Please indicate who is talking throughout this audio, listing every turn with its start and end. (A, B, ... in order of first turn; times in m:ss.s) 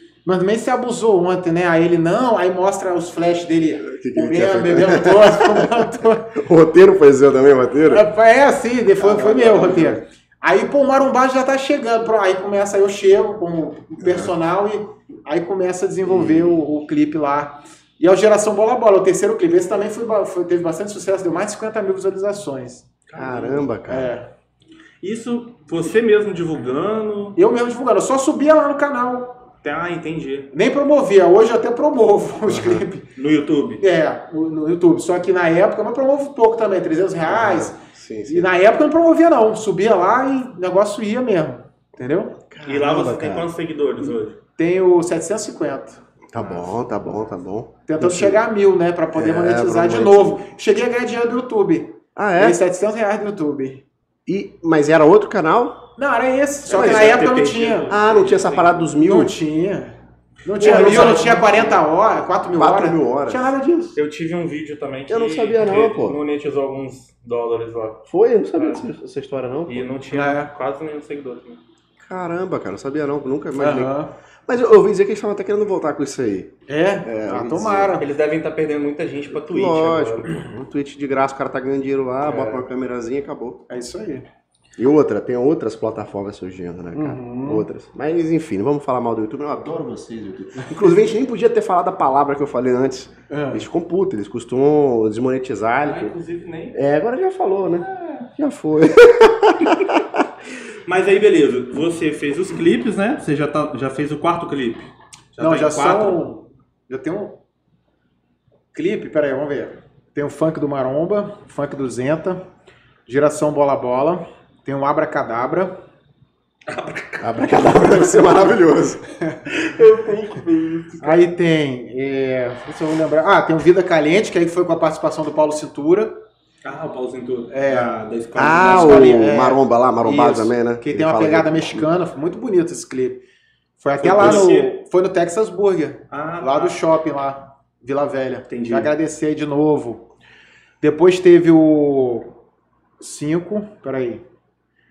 0:00.2-0:06.3 A
0:03.8-0:08.1 B
0:07.9-0:22.9 A
0:09.0-0:10.0 B
0:14.0-0:14.3 B
0:16.0-0:16.6 B
0:23.1-0:24.1 B
0:23.2-0:23.6 C
0:23.9-0:24.3 A
0:25.0-0:27.4 C
0:27.4-0:29.4 A
0:29.6-0:30.5 C
0:30.5-0:33.0 A
0:32.5-0:32.8 B
0:33.2-0:33.8 C
0:33.8-0:37.8 A
0:37.3-0:38.5 B
0:38.3-0:42.3 A
0:42.5-0:43.5 B
0:42.6-0:44.4 C
0:44.6-0:46.0 A
0:46.3-0:48.4 B
0:47.9-0:53.8 A
0:49.1-0:50.4 B
0:52.1-0:52.6 B
0:54.2-0:55.8 B
0:56.0-0:57.9 A
0:56.7-0:57.3 B
0:56.7-0:58.8 C
0:57.9-0:59.4 B
0:59.0-1:04.0 A
1:00.6-1:01.8 B
1:00.6-1:01.4 C
1:02.5-1:03.5 B
1:04.0-1:08.0 C
1:05.1-1:06.2 B
1:08.1-1:09.9 B
1:08.6-1:08.9 C
1:09.7-1:11.6 C
1:10.1-1:10.5 A
1:12.0-1:16.5 B
1:13.6-1:14.1 A
1:16.7-1:18.0 A
1:17.0-1:18.0 B
1:18.0-1:20.3 C
1:19.3-1:23.6 B
1:22.2-1:22.6 C
1:23.7-1:24.2 A
1:24.8-1:36.1 B
1:26.9-1:27.7 A
1:33.3-1:33.6 A
1:35.8-1:36.8 C
1:36.7-1:40.2 B
1:37.8-1:38.3 C
1:40.8-1:46.2 C
1:45.4-1:47.4 A
1:48.7-1:52.4 A
1:53.1-1:55.7 A
1:56.7-1:58.2 C
1:57.2-1:59.1 B
1:59.5-2:01.2 C
2:01.0-2:06.2 A
2:06.6-2:09.1 C
2:07.5-2:13.2 A
2:08.3-2:11.9 B
2:13.8-2:20.0 A
2:14.0-2:14.8 C
2:14.0-2:14.4 B
2:16.1-2:16.8 C
2:18.5-2:18.9 C
2:20.8-2:22.3 A
2:23.0-2:24.2 A